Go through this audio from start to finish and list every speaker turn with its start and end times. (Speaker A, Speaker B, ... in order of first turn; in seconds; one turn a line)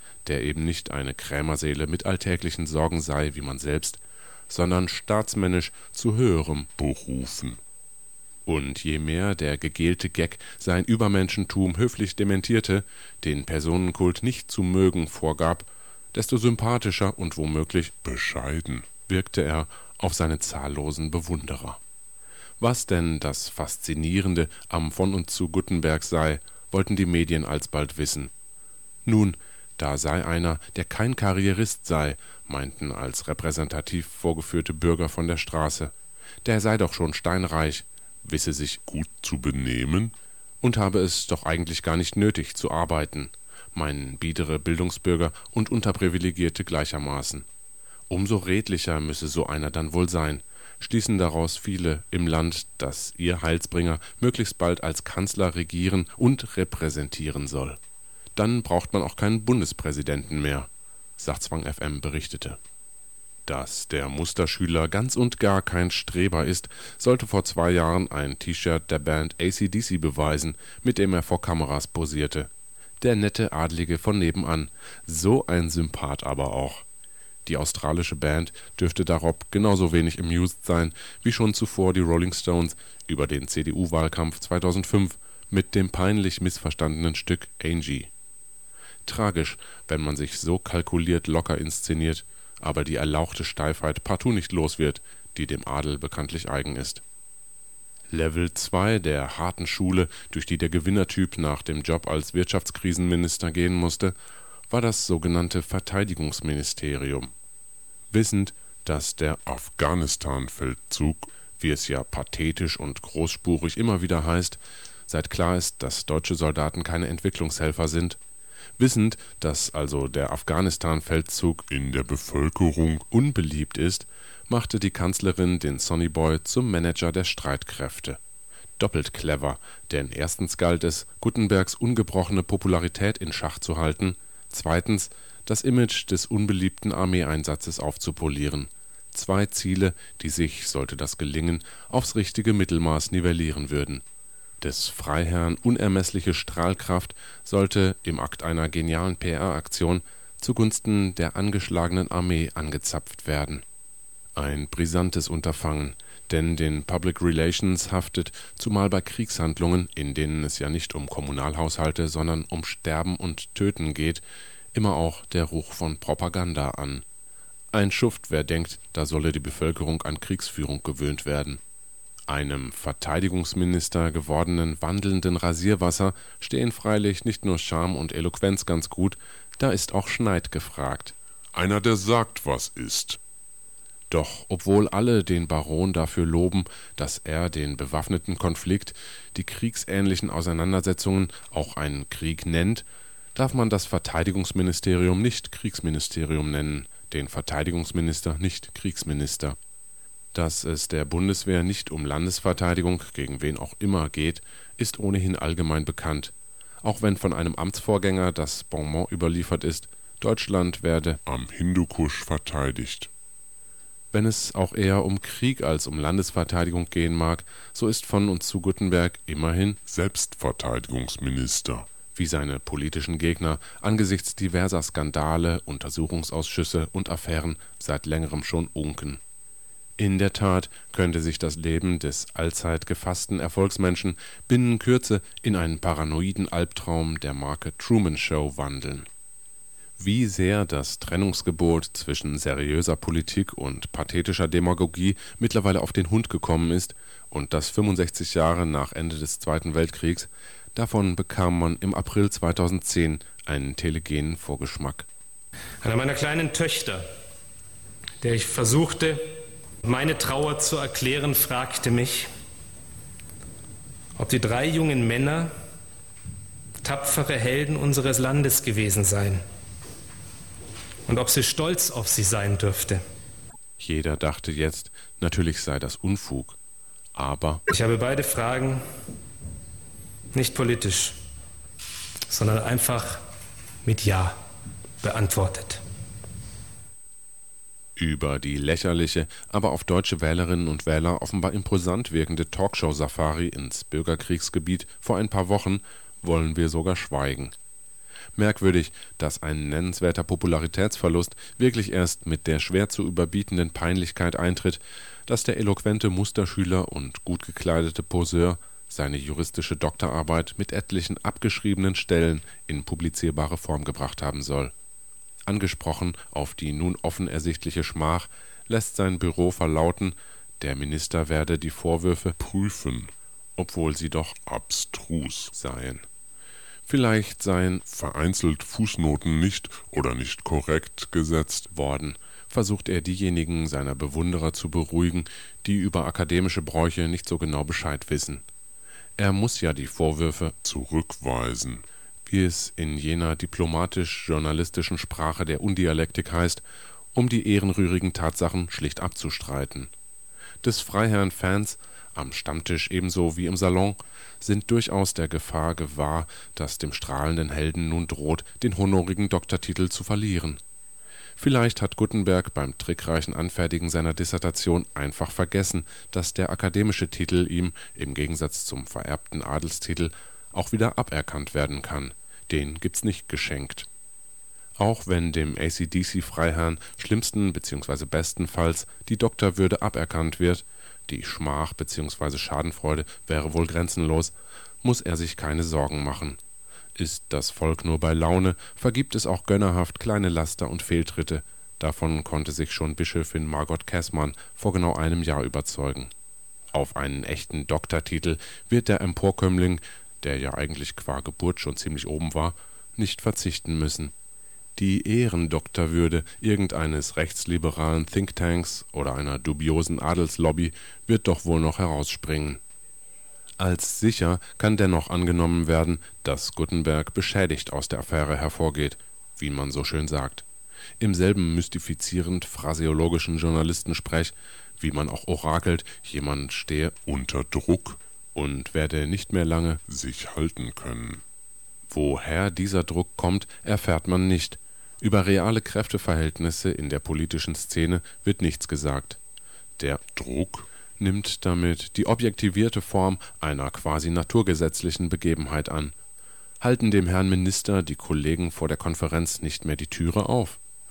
Speaker A: 0.2-6.7
Speaker B: 6.8-7.6
Speaker A: 8.4-18.0
Speaker B: 18.0-18.9
Speaker A: 18.9-21.8
Speaker A: 22.6-28.3
Speaker A: 29.1-35.9
Speaker A: 36.4-38.8
Speaker B: 38.8-40.1
Speaker A: 40.6-47.4
Speaker A: 48.1-57.8
Speaker A: 58.3-62.6
Speaker A: 63.5-72.5
Speaker A: 73.0-76.8
Speaker A: 77.5-88.1
Speaker A: 89.0-97.0
Speaker A: 98.1-104.1
Speaker A: 104.7-107.3
Speaker A: 108.1-109.8
Speaker B: 109.5-111.3
Speaker A: 111.5-118.2
Speaker A: 118.8-121.7
Speaker B: 121.7-123.1
Speaker A: 123.1-128.2
Speaker A: 128.8-144.0
Speaker A: 144.6-153.6
Speaker A: 154.4-164.2
Speaker A: 164.7-167.0
Speaker A: 167.7-171.6
Speaker A: 172.3-181.1
Speaker B: 181.5-183.2
Speaker A: 184.1-199.6
Speaker A: 200.3-211.2
Speaker B: 211.3-213.1
Speaker A: 214.1-219.8
Speaker B: 219.9-221.9
Speaker A: 222.1-229.2
Speaker A: 230.0-239.1
Speaker A: 240.0-255.1
Speaker C: 255.8-257.1
Speaker C: 258.2-262.3
Speaker C: 264.1-265.5
Speaker C: 266.8-269.4
Speaker C: 271.1-273.0
Speaker A: 273.8-276.6
Speaker A: 277.1-277.6
Speaker C: 277.7-278.8
Speaker C: 280.3-281.2
Speaker C: 282.3-283.2
Speaker C: 283.8-284.4
Speaker C: 285.0-285.8
Speaker A: 288.0-297.5
Speaker A: 298.4-314.7
Speaker A: 315.5-322.4
Speaker B: 322.4-323.1
Speaker A: 323.6-324.4
Speaker B: 324.4-325.5
Speaker A: 325.5-326.0
Speaker A: 326.9-327.9
Speaker B: 327.9-331.7
Speaker A: 331.7-338.4
Speaker A: 339.2-340.6
Speaker B: 340.6-341.8
Speaker A: 342.2-346.6
Speaker A: 347.1-349.9
Speaker A: 350.6-360.6
Speaker A: 361.4-373.9
Speaker A: 374.8-386.4
Speaker A: 386.9-396.1
Speaker A: 396.7-404.1
Speaker A: 404.8-412.6
Speaker A: 413.6-420.4
Speaker A: 421.0-427.0
Speaker B: 427.1-428.0
Speaker A: 428.3-429.8
Speaker B: 429.9-431.2
Speaker A: 431.9-439.2
Speaker B: 440.1-440.7
Speaker A: 441.0-445.9
Speaker A: 446.6-450.6